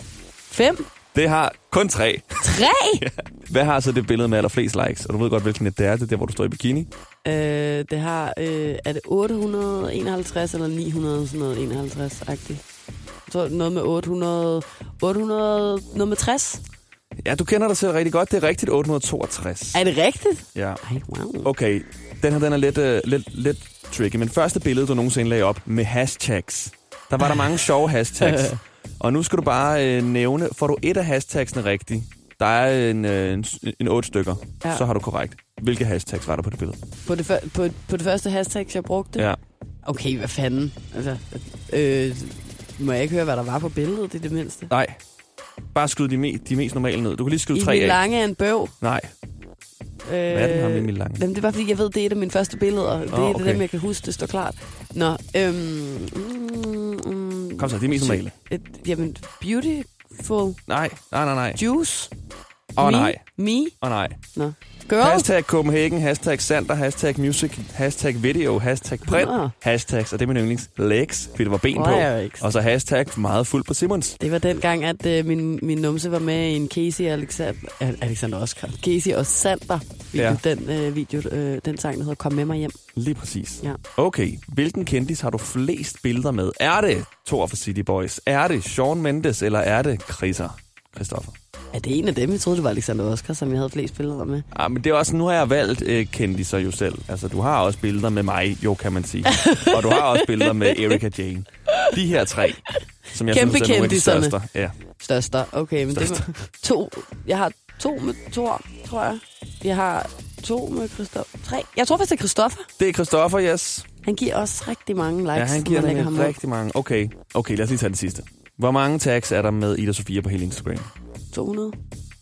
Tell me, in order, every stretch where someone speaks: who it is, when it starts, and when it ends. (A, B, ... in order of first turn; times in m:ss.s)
0:00.5-0:00.9 A
0:01.1-0:06.9 B
0:02.4-0:03.0 A
0:07.2-0:12.6 A
0:13.3-0:16.6 A
0:17.2-0:19.8 B
0:19.7-0:21.5 A
0:20.5-0:20.8 B
0:21.4-0:36.8 B
0:28.2-0:28.6 A
0:37.0-0:39.3 A
0:39.8-0:44.7 A
0:44.7-0:45.0 B
0:45.7-0:48.0 B
0:47.5-0:48.7 A
0:48.8-0:49.1 B
0:50.0-1:00.6 A
0:50.3-0:51.2 B
0:53.1-0:53.6 B
0:57.6-0:58.3 B
1:00.7-1:01.6 B
1:01.6-1:02.1 A
1:02.8-1:03.2 B
1:02.8-1:03.7 A
1:03.8-1:04.2 B
1:04.3-1:05.3 A
1:05.0-1:14.2 B
1:09.0-1:09.5 A
1:11.7-1:12.5 A
1:14.2-1:22.8 A
1:20.1-1:20.4 B
1:22.9-1:31.3 B
1:31.7-1:34.4 A
1:34.5-1:44.7 B
1:39.3-1:41.0 A
1:43.3-1:44.4 A
1:45.0-1:52.7 A
1:45.9-1:46.3 B
1:52.8-1:53.9 B
1:54.0-1:56.4 A
1:55.3-2:00.9 B
2:01.3-2:01.8 A